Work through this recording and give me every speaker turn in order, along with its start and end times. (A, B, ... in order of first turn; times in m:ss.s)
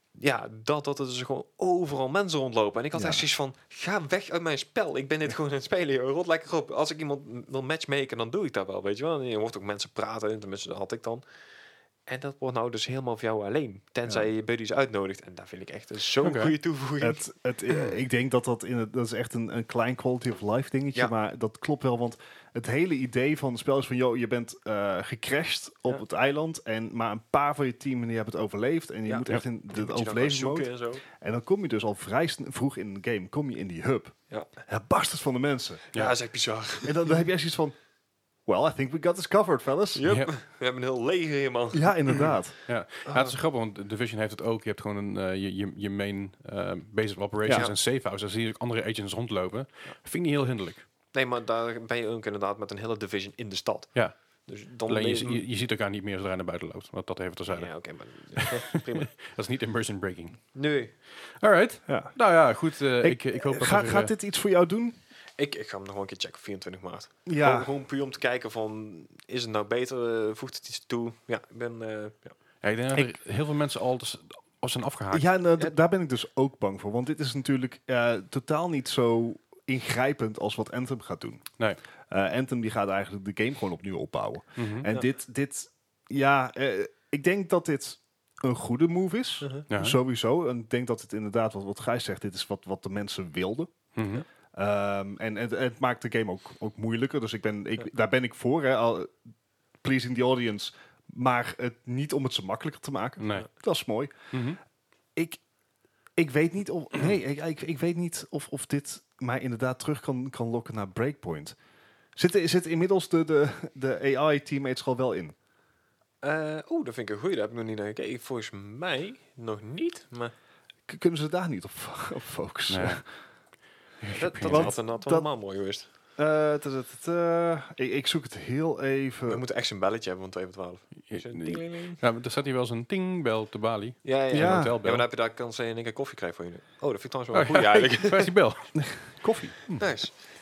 0:00.2-0:11.2 A
0:02.9-0:03.2 B
0:12.1-0:17.9 A
0:16.2-0:16.5 C
0:17.0-0:35.8 B
0:29.0-0:31.0 A
0:35.9-0:37.1 A
0:36.8-0:37.7 B
0:38.4-0:40.0 B
0:39.9-0:42.3 A
0:41.7-0:42.6 B
0:42.7-0:50.8 C
0:43.0-0:43.4 A
0:47.4-0:47.7 B
0:51.1-0:53.9 A
0:54.5-0:55.4 A
0:54.8-0:57.7 C
0:57.5-0:59.1 A
0:58.3-1:00.4 C
1:00.5-1:00.9 A
1:01.4-1:04.1 C
1:01.9-1:02.1 B
1:03.0-1:05.0 B
1:05.4-1:12.3 A
1:07.2-1:07.7 B
1:12.6-1:15.3 C
1:15.1-1:21.5 B
1:22.1-1:33.7 B
1:24.6-1:24.9 C
1:29.7-1:30.0 C
1:34.0-1:34.2 C
1:34.5-1:39.1 B
1:39.8-1:44.1 B
1:43.2-1:43.5 C
1:44.3-1:44.6 C
1:45.2-1:45.4 B
1:46.2-1:51.6 B
1:52.2-1:55.3 B
1:56.2-2:00.3 A
2:00.9-2:03.0 B
2:02.7-2:03.0 C
2:04.0-2:04.8 C
2:04.1-2:05.9 A
2:04.4-2:05.3 B
2:06.2-2:09.4 B
2:09.3-2:12.0 A
2:11.1-2:15.0 C
2:14.0-2:18.3 A
2:14.3-2:14.7 B
2:17.3-2:19.1 C
2:18.8-2:20.2 B
2:19.8-2:20.2 A